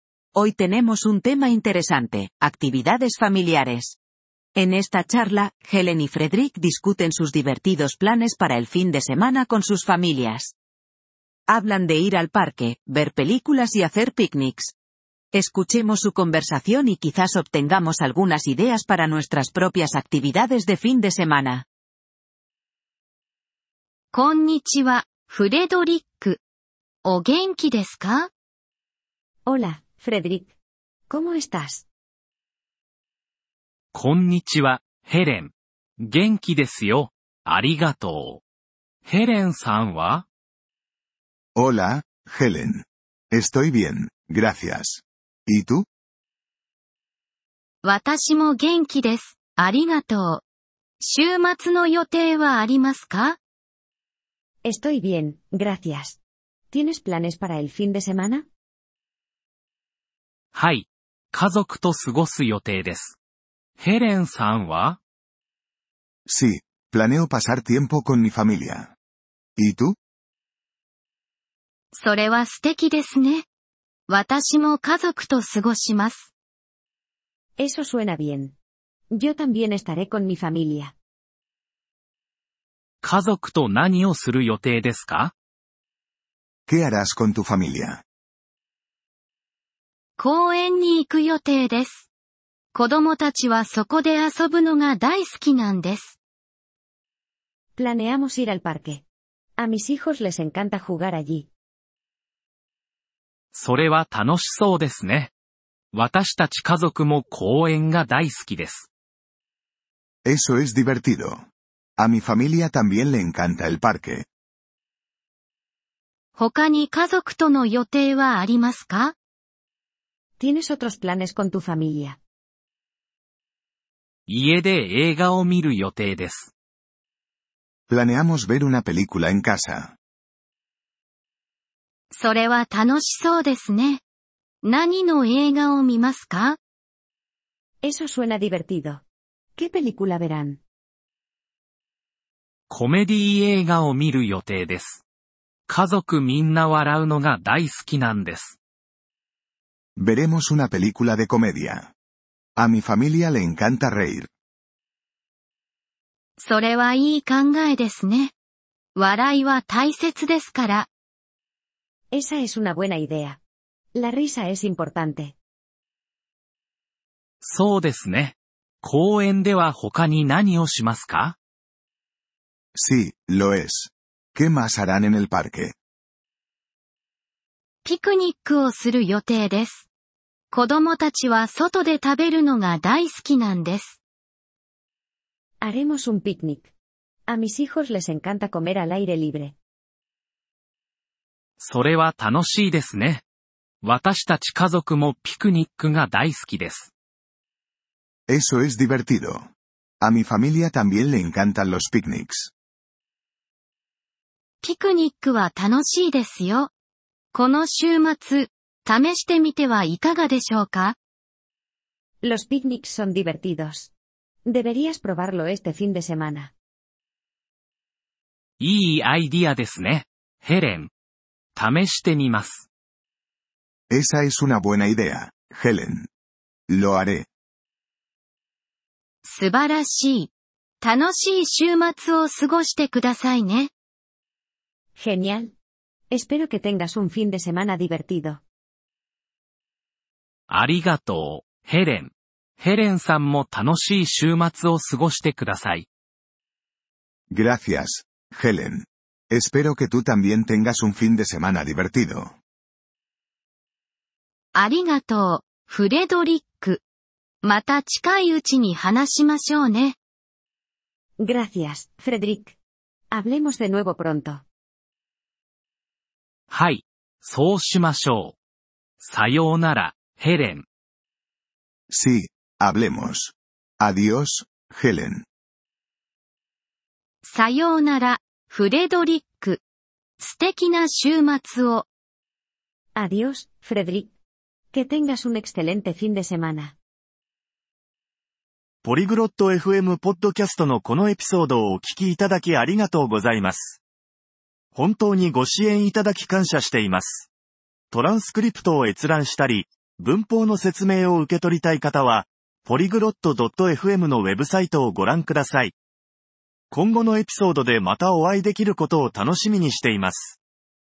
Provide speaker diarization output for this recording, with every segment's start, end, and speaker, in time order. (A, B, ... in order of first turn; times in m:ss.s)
0:00.3-0:04.0 A
0:04.6-0:10.5 A
0:11.5-0:14.7 A
0:15.3-0:21.6 A
0:24.1-0:26.4 B
0:27.0-0:28.3 B
0:29.4-0:30.5 C
0:31.1-0:31.8 C
0:33.9-0:38.4 D
0:39.0-0:40.2 D
0:41.6-0:45.8 E
0:47.8-0:50.4 B
0:51.0-0:53.4 B
0:54.6-0:56.2 C
0:56.7-0:58.4 C
1:00.5-1:03.2 D
1:03.8-1:05.0 D
1:06.3-1:08.9 E
1:09.6-1:10.0 E
1:11.9-1:13.4 B
1:14.1-1:16.3 B
1:17.6-1:18.5 C
1:19.1-1:20.9 C
1:23.0-1:25.3 D
1:26.7-1:28.0 E
1:30.2-1:32.1 B
1:32.7-1:36.2 B
1:37.8-1:39.0 C
1:39.6-1:41.5 C
1:43.5-1:45.3 D
1:45.9-1:48.9 D
1:50.2-1:51.5 E
1:52.0-1:54.3 E
1:56.3-1:59.1 B
2:00.4-2:02.2 C
2:04.3-2:06.5 D
2:07.9-2:09.9 E
2:12.1-2:14.0 B
2:14.6-2:16.6 B
2:17.8-2:19.0 C
2:19.6-2:20.6 C
2:22.7-2:25.0 D
2:25.7-2:28.6 D
2:30.0-2:31.9 E
2:32.6-2:34.3 E
2:36.4-2:38.3 B
2:38.9-2:40.9 B
2:42.1-2:43.4 C
2:43.9-2:45.3 C
2:47.4-2:51.4 D
2:52.7-2:55.8 E
2:57.8-2:59.8 B
3:00.5-3:04.0 B
3:05.6-3:06.7 C
3:07.3-3:09.5 C
3:11.6-3:13.2 D
3:13.8-3:16.9 D
3:18.3-3:19.5 E
3:20.0-3:22.5 E
3:24.6-3:26.7 B
3:27.3-3:31.0 B
3:32.2-3:33.9 C
3:34.5-3:36.5 C
3:38.6-3:40.9 D
3:41.5-3:42.6 D
3:43.9-3:46.1 E
3:46.7-3:47.3 E
3:49.2-3:50.3 B
3:50.8-3:53.7 B
3:55.0-3:55.5 C
3:56.1-3:58.4 C
4:00.5-4:05.8 D
4:07.3-4:12.4 E
4:14.5-4:16.8 B
4:17.4-4:20.0 B
4:21.2-4:22.5 C
4:23.1-4:24.4 C
4:26.5-4:28.4 D
4:29.0-4:30.6 D
4:31.9-4:35.2 E
4:37.2-4:39.6 B
4:40.2-4:41.9 B
4:43.0-4:44.1 C
4:44.7-4:46.7 C
4:48.8-4:53.8 F
4:54.7-4:57.3 F
4:57.9-5:05.7 F
5:06.7-5:10.4 F